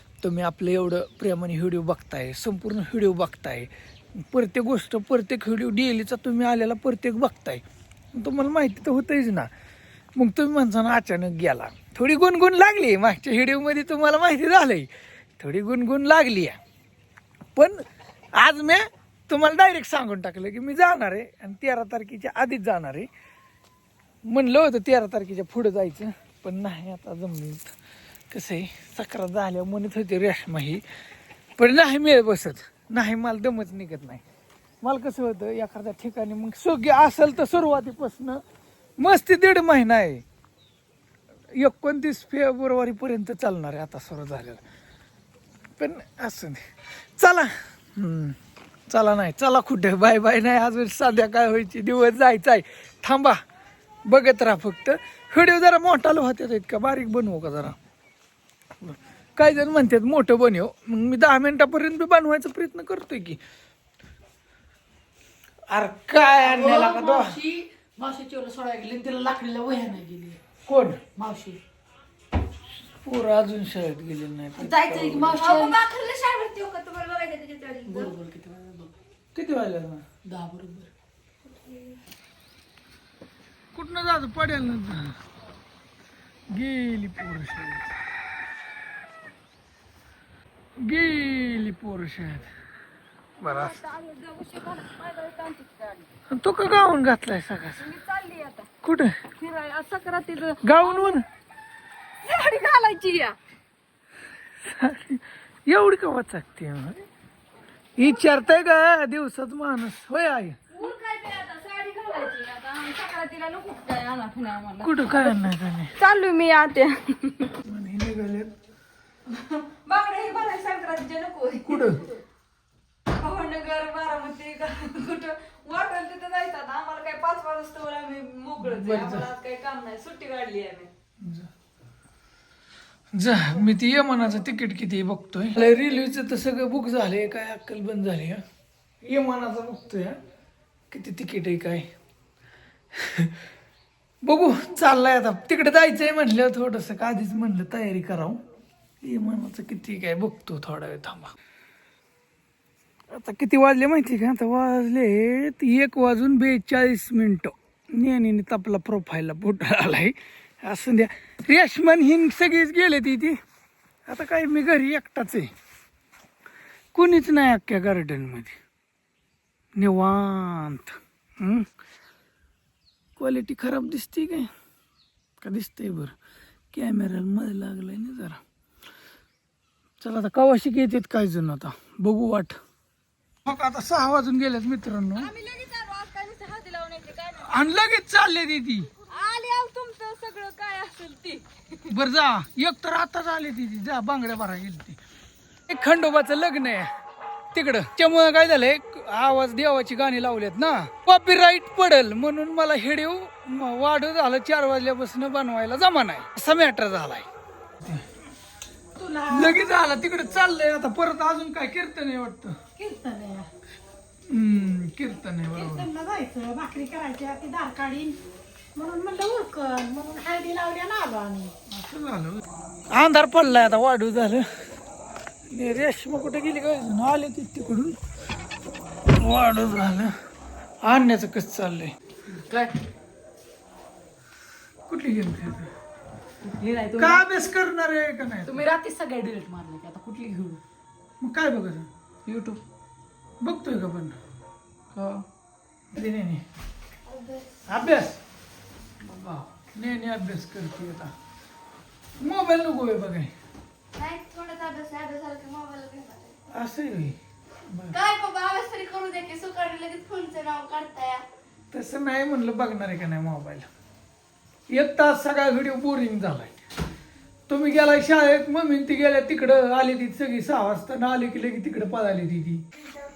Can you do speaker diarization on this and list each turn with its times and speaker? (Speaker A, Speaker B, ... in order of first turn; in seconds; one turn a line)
Speaker A: 0.2-7.6
Speaker A: 8.1-9.5
Speaker A: 10.2-16.6
Speaker A: 17.6-17.8
Speaker A: 18.4-23.1
Speaker A: 24.3-27.7
Speaker A: 28.3-30.8
Speaker A: 31.6-34.2
Speaker A: 34.8-38.4
Speaker A: 39.0-40.2
Speaker A: 41.5-44.6
Speaker A: 45.8-46.6
Speaker A: 47.2-48.4
Speaker A: 48.9-53.4
Speaker A: 54.1-57.8
Speaker A: 58.8-63.4
Speaker A: 65.7-67.4
Speaker B: 66.4-70.4
Speaker A: 70.7-71.0
Speaker B: 71.2-71.6
Speaker A: 73.0-75.4
Speaker B: 74.6-75.8
Speaker C: 75.4-78.2
Speaker B: 77.9-78.9
Speaker A: 79.3-80.0
Speaker B: 80.2-80.9
Speaker C: 81.5-82.0
Speaker A: 83.7-85.2
Speaker A: 86.5-87.9
Speaker A: 90.8-92.5
Speaker D: 93.4-96.1
Speaker A: 93.4-93.8
Speaker A: 96.3-97.8
Speaker D: 97.8-98.7
Speaker A: 98.8-99.2
Speaker D: 99.4-101.2
Speaker A: 100.6-101.2
Speaker D: 102.2-103.4
Speaker A: 104.6-107.0
Speaker A: 108.0-110.6
Speaker D: 110.7-117.6
Speaker A: 114.8-115.9
Speaker A: 117.7-118.5
Speaker D: 119.3-122.2
Speaker A: 121.6-122.0
Speaker D: 123.1-130.9
Speaker A: 128.6-129.3
Speaker A: 131.2-131.5
Speaker A: 133.1-138.4
Speaker A: 139.0-140.2
Speaker A: 140.9-141.9
Speaker A: 143.0-143.4
Speaker A: 144.2-148.4
Speaker A: 149.0-151.3
Speaker A: 153.1-163.4
Speaker A: 164.1-165.5
Speaker A: 166.9-168.6
Speaker A: 169.8-171.7
Speaker A: 173.2-174.5
Speaker A: 175.4-176.1
Speaker A: 176.7-178.4
Speaker A: 180.0-182.6
Speaker A: 183.5-185.3
Speaker D: 185.2-187.6
Speaker A: 187.4-188.9
Speaker D: 189.0-191.5
Speaker A: 191.9-195.0
Speaker A: 195.7-196.9
Speaker A: 197.5-207.3
Speaker B: 209.0-209.6
Speaker A: 209.3-212.6
Speaker B: 212.8-213.5
Speaker A: 214.3-215.9
Speaker B: 215.6-218.2
Speaker B: 218.8-221.5
Speaker A: 221.7-224.5
Speaker A: 225.5-228.0
Speaker A: 229.2-230.1
Speaker A: 230.8-231.9
Speaker B: 232.3-232.8
Speaker A: 234.9-235.7
Speaker B: 236.4-237.2
Speaker A: 236.9-238.7
Speaker B: 238.5-240.6
Speaker A: 241.2-241.9
Speaker B: 242.3-242.6
Speaker A: 243.4-244.2
Speaker B: 244.9-245.2
Speaker A: 245.9-246.4
Speaker C: 247.1-247.5
Speaker A: 247.7-248.2
Speaker A: 249.1-251.1
Speaker A: 252.2-253.3
Speaker C: 254.0-256.4
Speaker A: 256.5-257.2
Speaker A: 257.7-258.0
Speaker C: 257.9-261.2
Speaker A: 261.7-263.7
Speaker A: 264.7-266.6
Speaker A: 267.5-272.6